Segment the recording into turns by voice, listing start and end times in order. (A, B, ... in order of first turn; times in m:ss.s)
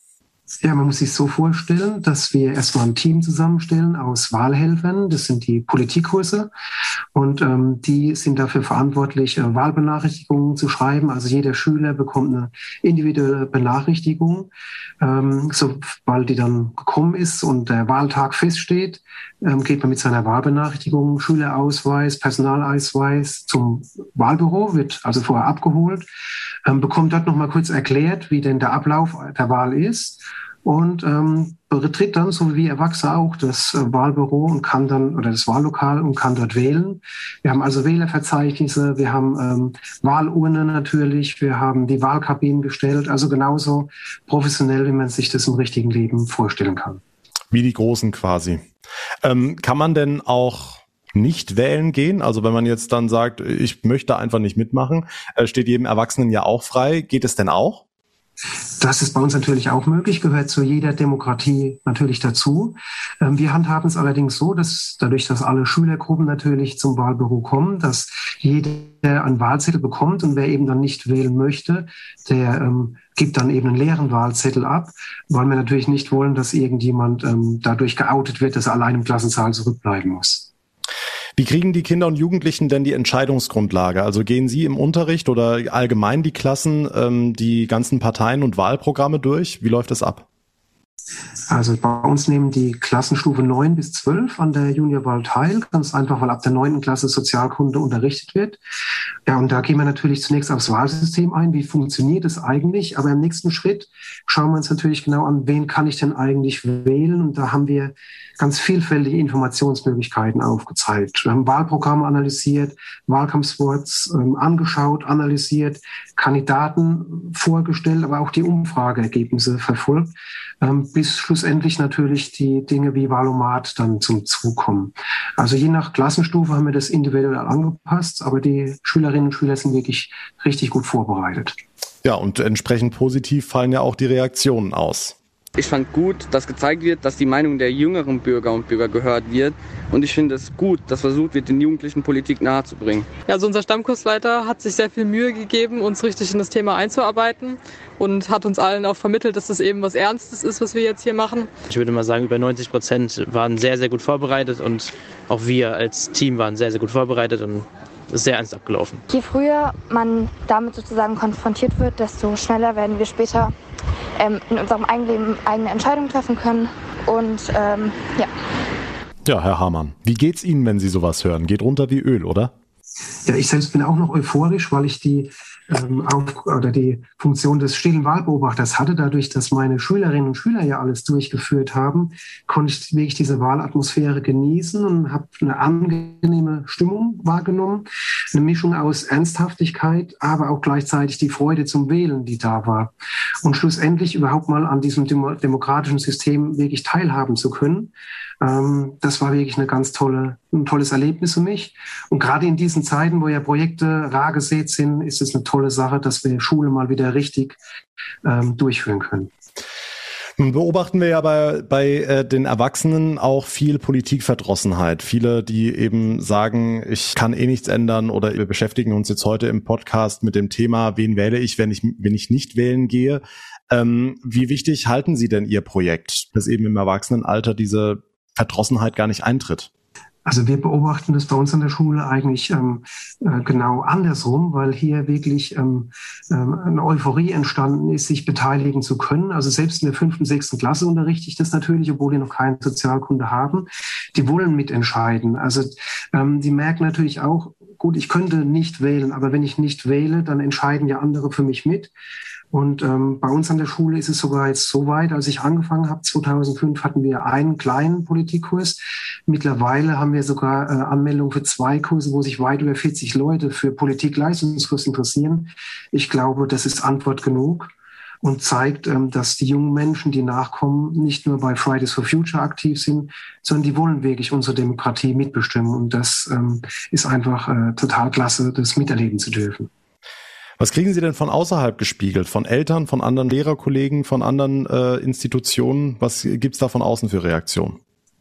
0:00.6-0:06.5 A
0:07.2-0:26.1 A
0:26.7-0:47.0 A
0:47.5-0:48.7 B
0:49.2-0:57.8 B
0:58.8-1:20.5 A
1:21.4-1:30.2 B
1:31.5-1:38.6 A
1:39.3-2:11.6 A
2:12.0-2:15.2 B
2:15.6-2:23.1 C
2:23.3-2:31.5 D
2:31.7-2:39.0 E
2:39.1-2:43.5 F
2:44.2-2:48.3 F
2:49.2-2:52.5 B
2:53.3-3:27.6 A
3:28.2-3:29.3 A
3:30.4-3:49.7 B
3:50.3-4:11.9 A
4:12.5-4:27.7 A
4:28.2-4:39.7 A
4:40.6-4:47.8 B